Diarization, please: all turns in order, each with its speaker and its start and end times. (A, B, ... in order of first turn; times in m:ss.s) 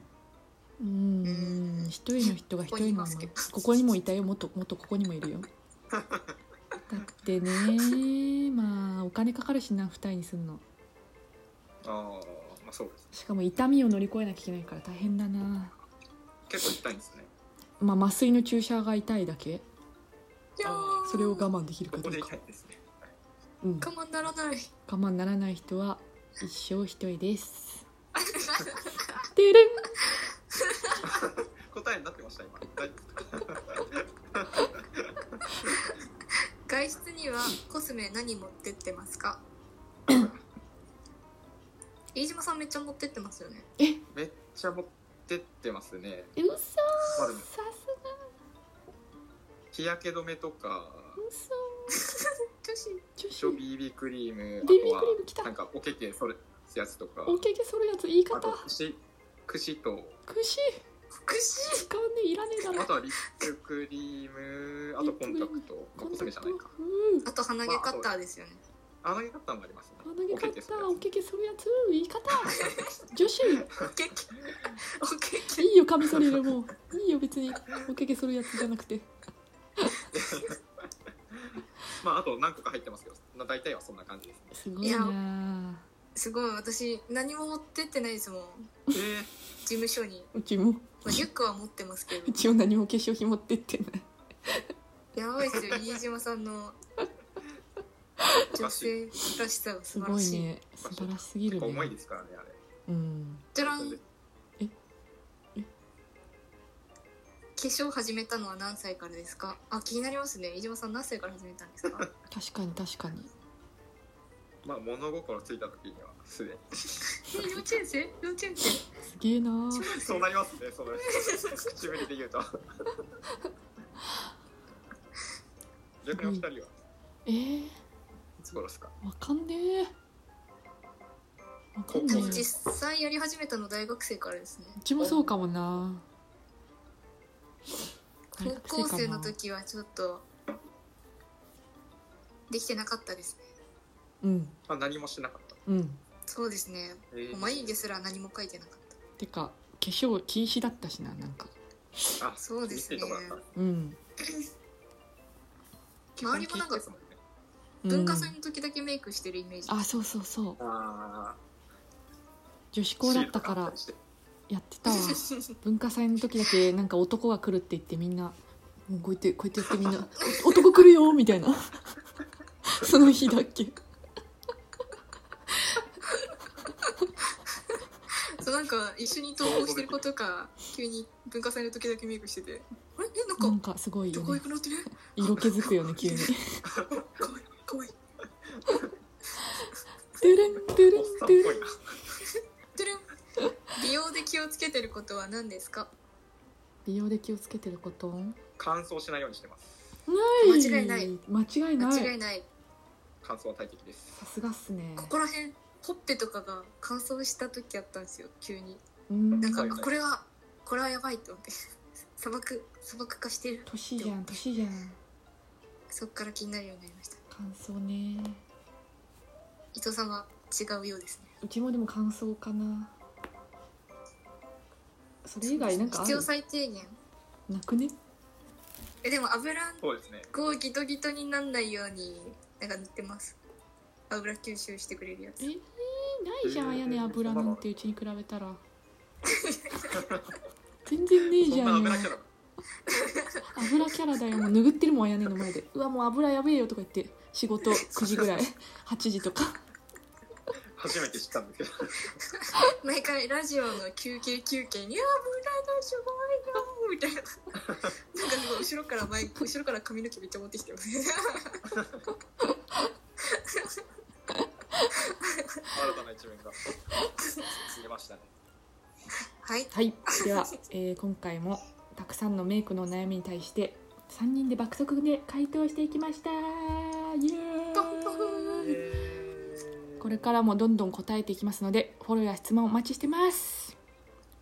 0:00.8-0:05.5 A
0:01.2-0:03.8 B
0:05.9-0:06.3 C
0:06.9-0:10.6 A
0:11.8-0:13.0 C
0:13.1-0:15.7 A
0:16.5-0:17.3 C
0:17.8-0:19.6 A
0:20.6-0:21.5 B
0:20.6-0:21.1 C
0:21.0-0:22.3 A
0:21.9-0:22.8 C
0:23.6-0:23.9 A
0:23.8-0:24.7 B
0:24.9-0:27.8 A
0:28.1-0:29.2 B
0:29.3-0:30.0 A
0:31.0-0:35.7 C
0:36.7-0:39.4 B
0:40.1-0:40.4 C
0:42.1-0:43.7 B
0:44.1-0:46.3 C
0:46.4-0:48.2 A
0:47.2-0:47.5 C
0:49.7-0:51.2 C
0:51.2-0:52.1 A
0:52.0-0:53.0 B
0:53.2-0:53.6 A
0:53.4-0:57.5 C
0:54.6-0:55.5 A
0:57.2-0:58.7 A
0:58.3-1:00.2 C
1:00.3-1:00.8 A
1:01.2-1:01.9 B
1:01.8-1:02.9 A
1:02.7-1:06.6 C
1:05.0-1:07.3 A
1:07.2-1:08.6 B
1:07.6-1:08.1 C
1:09.0-1:11.0 C
1:10.0-1:13.7 A
1:12.6-1:12.9 B
1:13.6-1:15.7 B
1:15.6-1:19.1 A
1:20.1-1:20.6 C
1:21.3-1:24.6 C
1:24.5-1:25.8 A
1:24.8-1:25.2 B
1:26.2-1:28.7 B
1:28.9-1:29.3 C
1:29.6-1:30.3 B
1:30.3-1:31.2 A
1:31.0-1:32.5 B
1:32.2-1:34.6 A
1:35.1-1:36.8 B
1:38.5-1:40.5 B
1:38.5-1:38.9 C
1:39.9-1:41.9 A
1:40.8-1:42.6 C
1:42.9-1:43.4 A
1:43.5-1:44.0 B
1:43.6-1:44.0 C
1:47.6-1:52.1 B
1:52.3-1:53.3 A
1:54.6-1:56.8 C
1:57.2-1:58.8 B
1:59.1-1:59.9 A
1:59.7-2:00.3 B
1:59.9-2:02.5 C
2:01.1-2:01.7 B
2:06.0-2:06.7 C
2:06.1-2:06.4 A
2:07.2-2:07.8 A
2:08.4-2:08.9 C
2:09.0-2:09.9 A
2:11.8-2:12.4 A
2:11.9-2:12.5 C
2:12.0-2:15.3 B
2:14.8-2:16.0 A
2:18.3-2:20.2 B
2:18.4-2:19.3 A
2:22.5-2:23.4 B
2:24.2-2:24.6 A
2:24.7-2:25.6 C
2:25.6-2:26.0 A
2:26.3-2:29.0 B
2:27.1-2:27.8 C
2:29.2-2:31.5 A
2:32.2-2:33.4 C
2:32.4-2:33.4 B
2:33.5-2:34.0 A
2:36.2-2:37.2 C
2:36.2-2:36.8 B
2:37.8-2:38.3 A
2:37.9-2:39.8 B
2:39.7-2:40.6 A
2:40.6-2:41.4 C
2:42.7-2:43.8 A
2:43.0-2:44.0 C
2:44.5-2:48.4 A
2:44.9-2:45.3 B
2:48.9-2:52.0 A
2:52.7-2:53.8 A
2:58.4-3:03.6 B
2:59.4-3:00.0 C
3:03.4-3:04.4 A
3:04.1-3:04.9 B
3:05.1-3:06.6 A
3:06.0-3:06.3 B
3:07.0-3:07.9 B
3:10.2-3:11.6 A
3:10.9-3:11.8 C
3:12.7-3:13.0 B
3:13.7-3:15.9 B
3:16.8-3:18.4 A
3:18.6-3:19.8 C
3:20.1-3:22.1 A
3:20.4-3:21.1 B
3:21.8-3:22.4 B
3:23.2-3:24.2 C
3:24.2-3:25.1 A
3:25.0-3:28.8 B
3:29.1-3:29.8 A
3:29.4-3:31.5 B
3:29.5-3:29.9 C
3:32.2-3:34.3 B
3:33.7-3:35.0 A
3:35.9-3:37.2 B
3:37.3-3:38.4 A
3:39.7-3:41.3 B
3:41.4-3:42.9 A
3:45.2-3:46.3 A
3:45.4-3:47.0 B
3:47.5-3:47.9 A
3:49.0-3:53.4 B
3:49.8-3:50.3 C
3:54.1-3:55.5 B
3:55.4-3:58.6 A
3:56.4-3:57.7 C
3:59.3-4:00.0 B
3:59.9-4:00.3 C
4:00.8-4:02.1 A
4:01.4-4:02.3 C
4:02.9-4:03.4 B
4:03.5-4:09.6 A
4:10.7-4:12.2 C
4:12.6-4:21.6 B
4:23.3-4:23.7 B
4:25.7-4:26.7 C
4:27.2-4:27.6 B
4:27.6-4:28.3 C
4:29.4-4:30.4 B
4:29.7-4:38.8 A
4:37.7-4:38.6 B
4:38.6-4:40.3 C
4:40.0-4:43.7 A